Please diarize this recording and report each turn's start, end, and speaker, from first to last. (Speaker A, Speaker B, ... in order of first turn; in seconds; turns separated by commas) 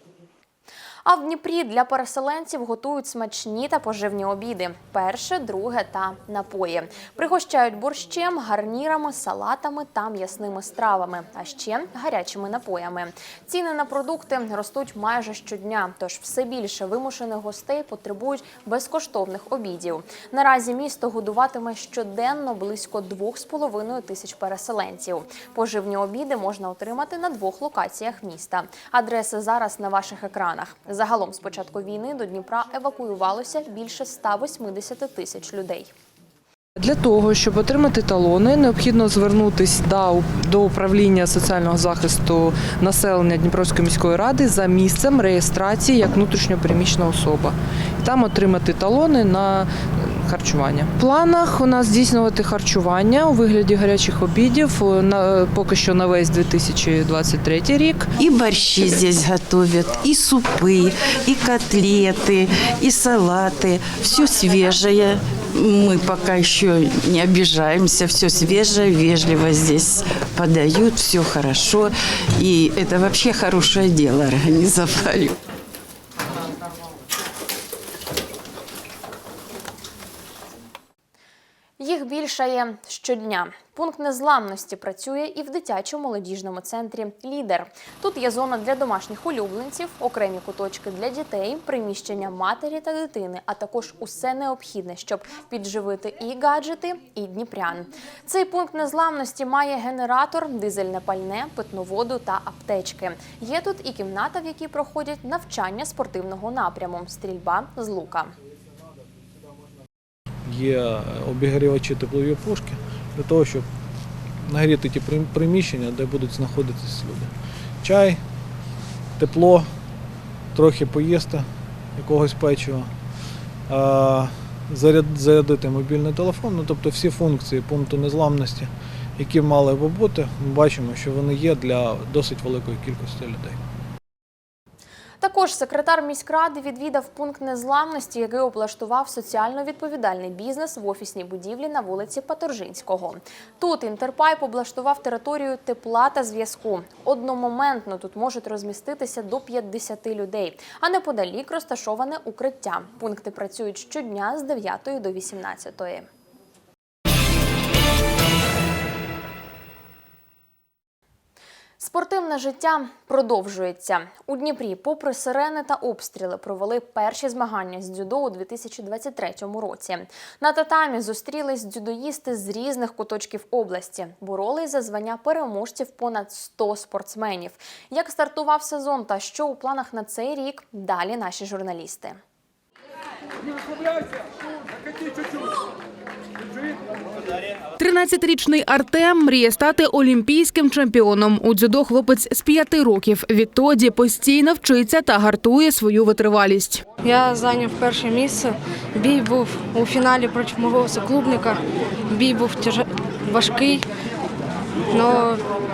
Speaker A: 1.1-35.9, Speaker B: 36.8-58.1, Speaker C: 58.2-75.3, Speaker A: 81.8-108.3, Speaker D: 110.5-113.7, Speaker D: 114.5-118.3, Speaker D: 119.2-119.8, Speaker D: 120.5-123.0, Speaker D: 123.7-133.6, Speaker A: 135.2-156.1, Speaker A: 161.8-182.2, Speaker E: 187.8-196.8, Speaker F: 197.0-203.8, Speaker F: 204.9-205.4